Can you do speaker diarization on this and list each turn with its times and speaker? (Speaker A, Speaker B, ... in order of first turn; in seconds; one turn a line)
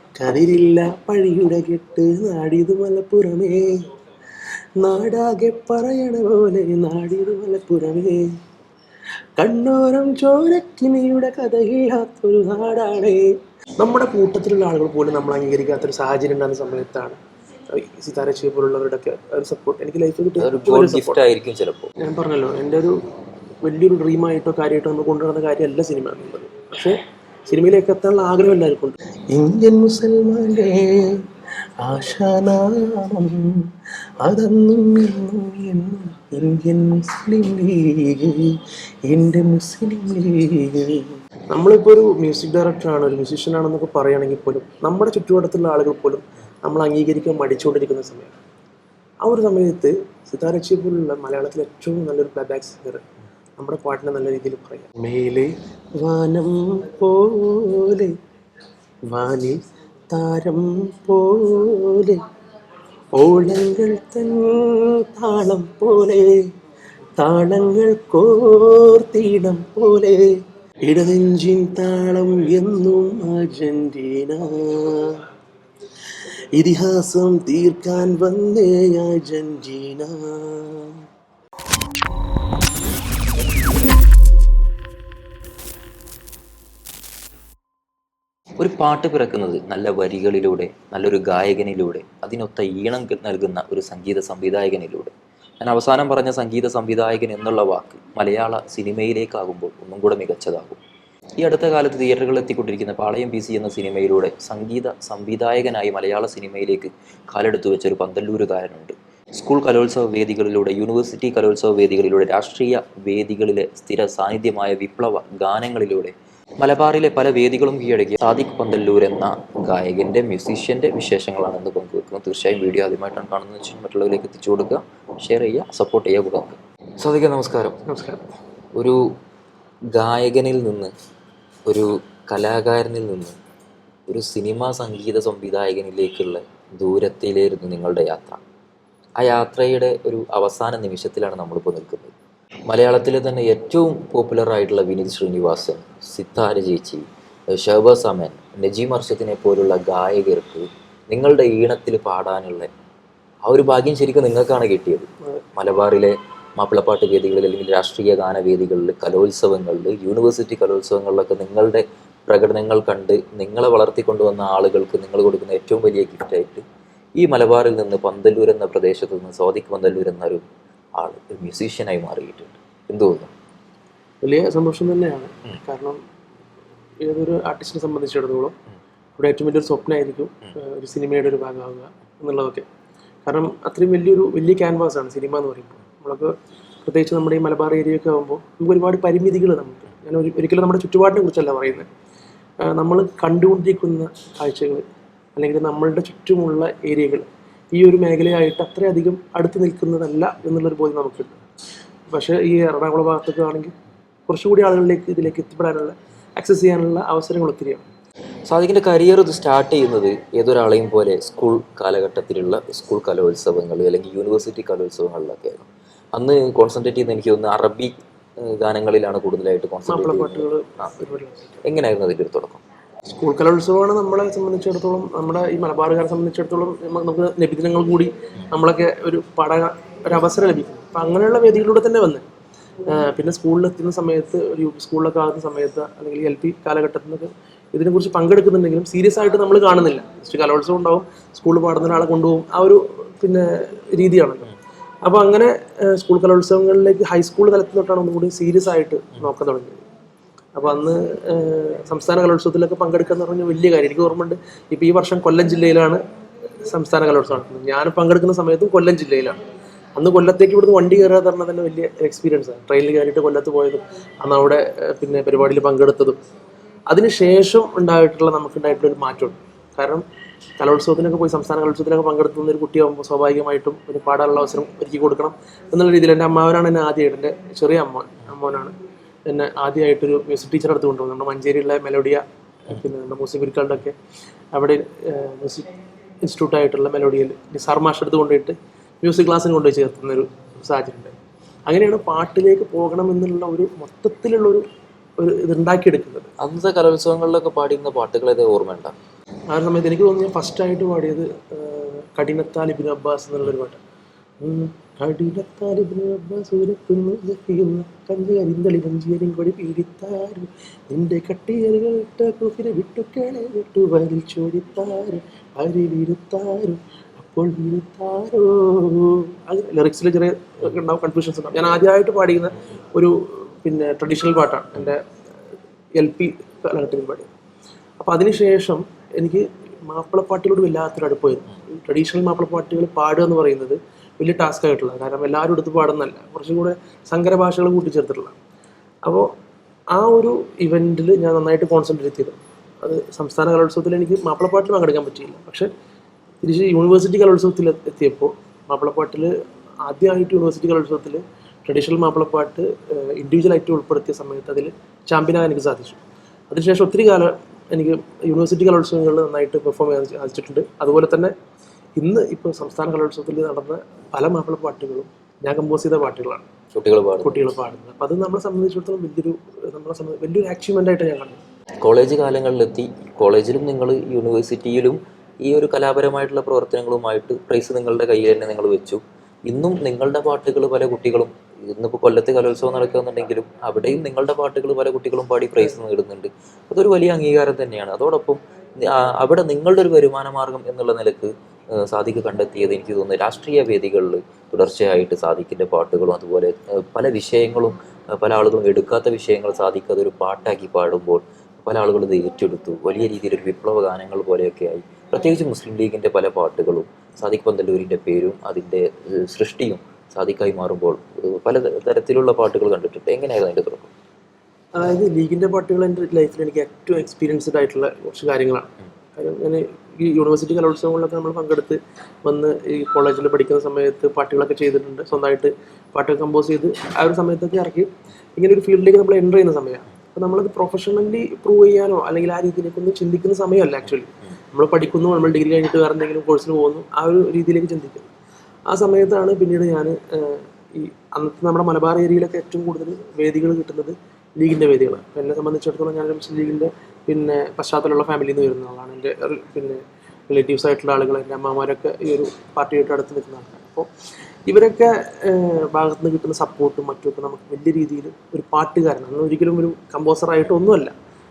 Speaker A: 0.2-3.7
Speaker A: 4.8-8.3
Speaker A: 9.4-13.3
Speaker A: 13.8-17.2
Speaker A: 17.7-21.2
Speaker B: 20.4-21.9
Speaker A: 22.0-23.0
Speaker A: 23.6-31.2
Speaker A: 31.8-33.7
Speaker A: 34.2-38.6
Speaker A: 39.1-48.3
Speaker A: 49.2-53.0
Speaker A: 53.6-58.1
Speaker A: 59.1-59.6
Speaker A: 60.1-62.2
Speaker A: 63.2-66.4
Speaker A: 67.2-70.3
Speaker A: 70.9-75.2
Speaker A: 76.5-81.0
Speaker B: 88.6-100.8
Speaker B: 101.4-127.8
Speaker A: 127.9-128.2
Speaker B: 128.8-129.0
Speaker B: 129.9-130.9
Speaker B: 131.7-133.4
Speaker B: 134.1-138.4
Speaker B: 139.2-142.1
Speaker B: 142.7-152.7
Speaker B: 153.5-166.7
Speaker B: 167.2-170.4
Speaker B: 171.0-173.3
Speaker A: 174.2-176.0
Speaker A: 177.0-178.6
Speaker A: 179.2-182.7
Speaker A: 183.3-191.9
Speaker A: 192.6-194.8
Speaker A: 195.4-201.4
Speaker A: 202.1-203.7
Speaker A: 204.3-207.8
Speaker B: 208.5-220.9
Speaker A: 219.9-221.6
Speaker B: 221.7-222.6
Speaker A: 223.1-232.2
Speaker A: 232.9-244.5
Speaker A: 245.1-249.8
Speaker A: 250.6-256.0
Speaker A: 256.7-259.4
Speaker A: 260.0-266.2
Speaker A: 266.9-270.0
Speaker A: 270.6-278.8
Speaker A: 279.3-284.0
Speaker A: 284.5-291.1
Speaker A: 291.7-294.6
Speaker A: 295.2-296.3
Speaker B: 296.4-298.9
Speaker A: 299.5-303.8
Speaker A: 304.4-325.0
Speaker A: 326.0-327.3
Speaker A: 328.0-338.4
Speaker A: 339.9-345.7
Speaker A: 346.4-349.3
Speaker A: 349.9-361.3
Speaker A: 362.0-366.5
Speaker B: 366.7-367.4
Speaker A: 367.2-371.4
Speaker B: 371.8-413.9
Speaker A: 414.8-438.1
Speaker A: 438.7-453.9
Speaker A: 454.5-460.9